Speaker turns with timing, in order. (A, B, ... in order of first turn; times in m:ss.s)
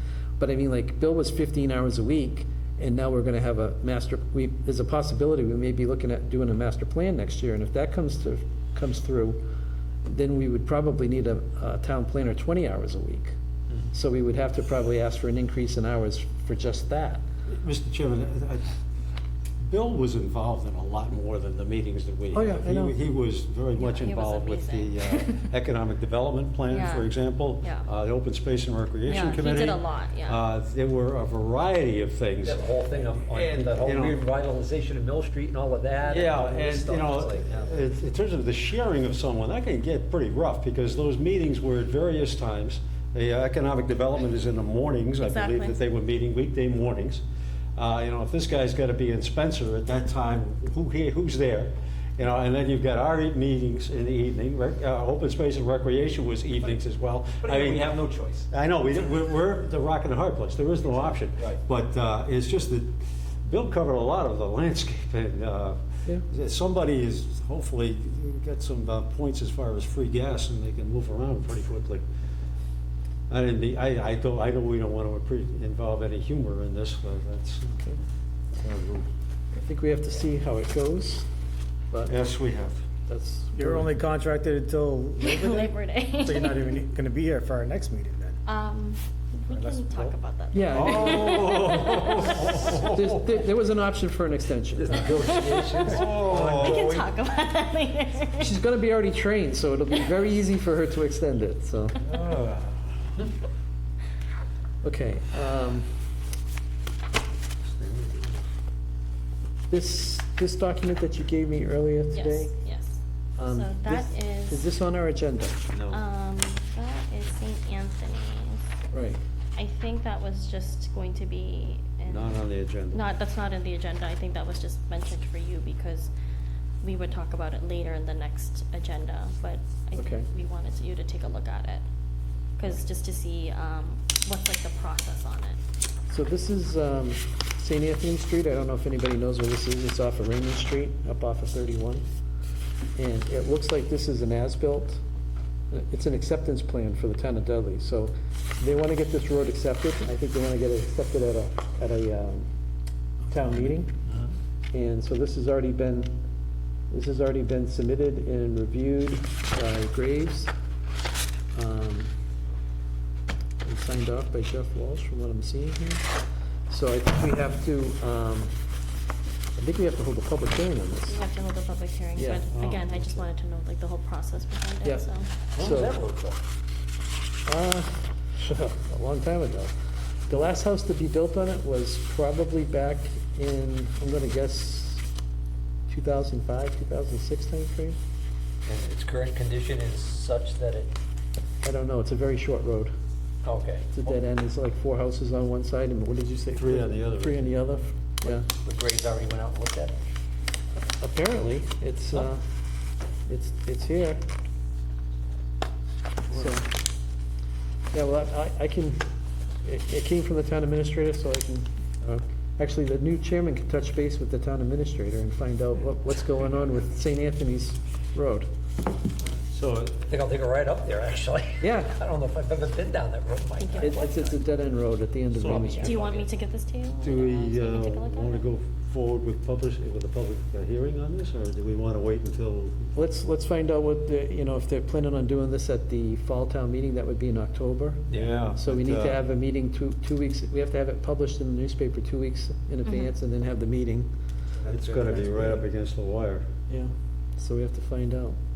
0:00.4-0:09.4 A
0:10.1-0:13.3 A
0:13.9-0:17.2 A
0:17.5-0:18.7 B
0:19.6-0:34.2 B
0:22.3-0:23.0 A
0:23.8-0:25.5 C
0:26.7-0:27.9 C
0:29.1-0:30.4 C
0:32.4-0:37.6 D
0:36.1-0:47.2 B
0:45.2-0:45.8 C
0:47.8-0:58.0 B
0:57.4-0:58.5 D
0:58.5-1:12.0 B
1:01.3-1:01.6 D
1:13.3-1:17.8 B
1:18.6-1:19.1 B
1:19.6-1:21.3 A
1:21.9-1:22.2 A
1:22.1-1:22.8 B
1:23.1-1:23.9 A
1:23.5-1:28.4 E
1:25.2-1:26.8 C
1:28.5-1:32.6 C
1:29.6-1:30.1 E
1:30.5-1:31.4 A
1:30.7-1:33.0 B
1:32.4-1:33.2 D
1:32.6-1:35.2 A
1:34.8-1:37.1 D
1:35.1-1:38.5 C
1:35.8-1:37.0 B
1:38.4-1:42.0 A
1:42.1-1:42.8 D
1:44.8-1:45.9 A
1:47.7-1:48.4 B
1:49.7-1:52.5 A
1:52.1-1:54.7 C
1:53.4-1:55.6 A
1:55.7-1:56.0 B
1:55.9-1:58.7 C
1:58.9-1:59.2 A
1:59.6-2:02.4 C
2:02.1-2:03.0 B
2:02.9-2:06.1 C
2:06.8-2:11.8 C
2:10.0-2:10.3 A
2:12.6-2:15.6 C
2:16.1-2:22.0 A
2:23.0-2:25.0 A
2:25.7-2:32.5 A
2:33.3-2:34.0 A
2:34.7-2:36.2 A
2:36.9-2:40.5 A
2:41.5-2:42.1 A
2:43.6-2:46.1 A
2:46.7-2:48.5 A
2:49.6-2:51.2 A
2:51.1-2:55.3 C
2:52.2-2:52.4 A
2:52.5-2:52.9 B
2:54.8-2:56.0 A
2:55.6-2:56.4 D
2:57.5-2:59.7 A
3:00.3-3:05.0 A
3:05.9-3:08.0 A
3:08.7-3:10.9 D
3:11.6-3:12.9 A
3:13.4-3:14.1 D
3:13.9-3:18.5 A
3:16.6-3:17.5 B
3:18.2-3:20.0 D
3:21.0-3:22.4 A
3:23.3-3:24.2 A
3:26.3-3:26.7 A
3:27.9-3:29.1 A
3:29.6-3:38.5 A
3:39.5-3:39.9 B
3:39.9-3:44.4 D
3:41.6-3:42.0 A
3:43.6-3:44.0 C
3:43.8-3:46.0 A
3:45.4-3:46.0 B
3:45.4-3:46.3 D
3:45.8-3:48.5 C
3:47.0-3:52.9 B
3:53.0-4:04.1 A
3:58.1-3:58.4 D
3:58.1-3:59.2 B
4:04.6-4:05.2 D
4:04.7-4:06.4 B
4:06.7-4:08.4 A